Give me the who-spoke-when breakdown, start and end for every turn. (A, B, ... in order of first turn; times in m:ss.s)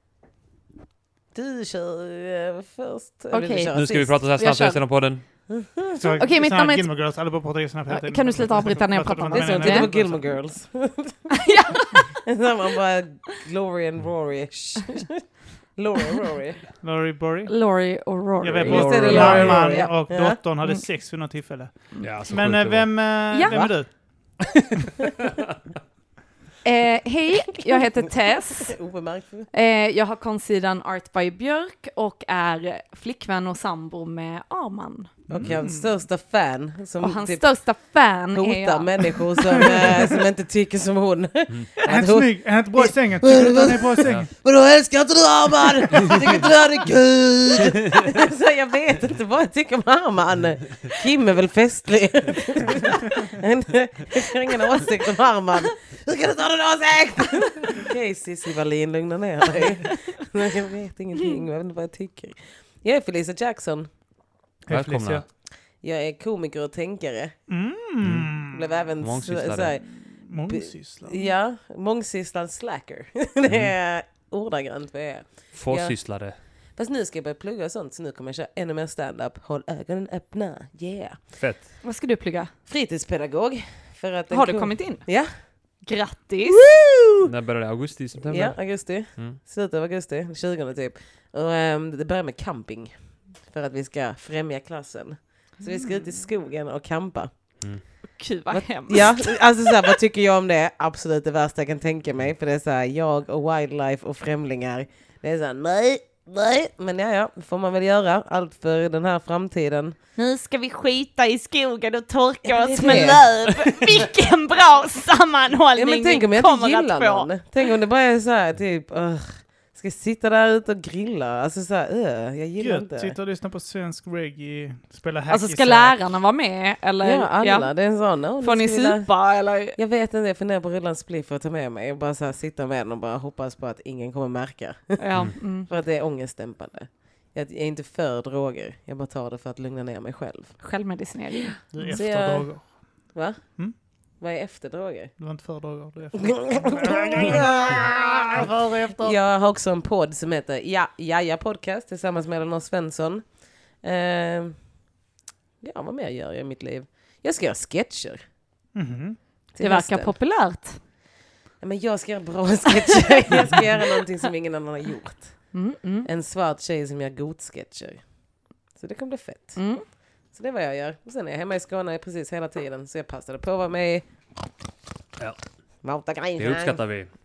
0:01.3-0:04.2 A
0:03.3-0:03.8 B
0:03.7-0:05.2 C
0:04.3-0:04.8 B
0:05.5-0:06.1 A
0:05.9-0:10.3 D
0:06.2-0:06.9 B
0:07.9-0:09.9 B
0:09.3-0:11.3 A
0:11.3-0:12.1 B
0:12.3-0:15.2 A
0:15.8-0:16.6 A
0:16.8-0:17.5 D
0:17.5-0:19.9 B
0:18.4-0:23.9 D
0:18.7-0:20.4 A
0:19.0-0:19.7 C
0:22.0-0:23.1 C
0:23.3-0:23.6 B
0:26.6-0:28.8 B
0:28.6-0:29.5 A
0:29.5-0:35.1 B
0:35.3-0:37.5 A
0:35.3-0:35.9 D
0:35.3-0:35.6 C
0:37.0-0:39.2 B
0:38.4-1:03.9 A
0:41.9-0:44.3 D
0:46.0-0:46.3 C
1:04.7-1:05.2 D
1:04.7-1:05.2 C
1:05.8-1:07.4 A
1:07.5-1:08.7 D
1:08.0-1:08.3 C
1:08.5-1:09.9 A
1:09.0-1:09.8 C
1:09.9-1:11.2 D
1:10.5-1:16.0 A
1:15.5-1:16.4 C
1:16.8-1:21.2 A
1:21.4-1:21.7 C
1:21.8-1:22.5 B
1:22.7-1:25.3 A
1:24.3-1:25.0 B
1:25.8-1:26.6 B
1:26.4-1:27.3 A
1:27.2-1:29.4 C
1:28.2-1:32.9 A
1:33.4-1:37.6 A
1:38.2-1:39.4 B
1:38.5-1:50.0 A
1:50.2-1:57.3 B
1:52.5-1:53.3 A
1:55.8-2:03.1 A
2:02.6-2:06.0 D
2:05.3-2:07.7 B
2:07.0-2:09.1 A
2:08.4-2:09.8 B
2:09.8-2:15.0 A
2:15.0-2:15.7 B
2:15.6-2:20.6 A
2:20.6-2:21.9 B
2:21.7-2:23.7 D
2:21.8-2:22.6 A
2:23.1-2:23.6 A
2:24.2-2:25.1 A
2:25.2-2:29.2 D
2:26.2-2:28.5 A
2:29.0-2:33.3 A
2:33.8-2:34.6 A
2:35.6-2:38.2 A
2:38.8-2:39.2 D
2:39.5-2:40.1 A
2:39.6-2:40.8 B
2:41.6-2:45.5 A
2:45.5-2:46.1 B
2:46.0-2:48.0 A
2:48.8-2:49.6 A
2:49.6-2:49.8 B
2:50.3-2:54.0 A
2:55.8-2:56.8 A
2:56.4-2:57.1 C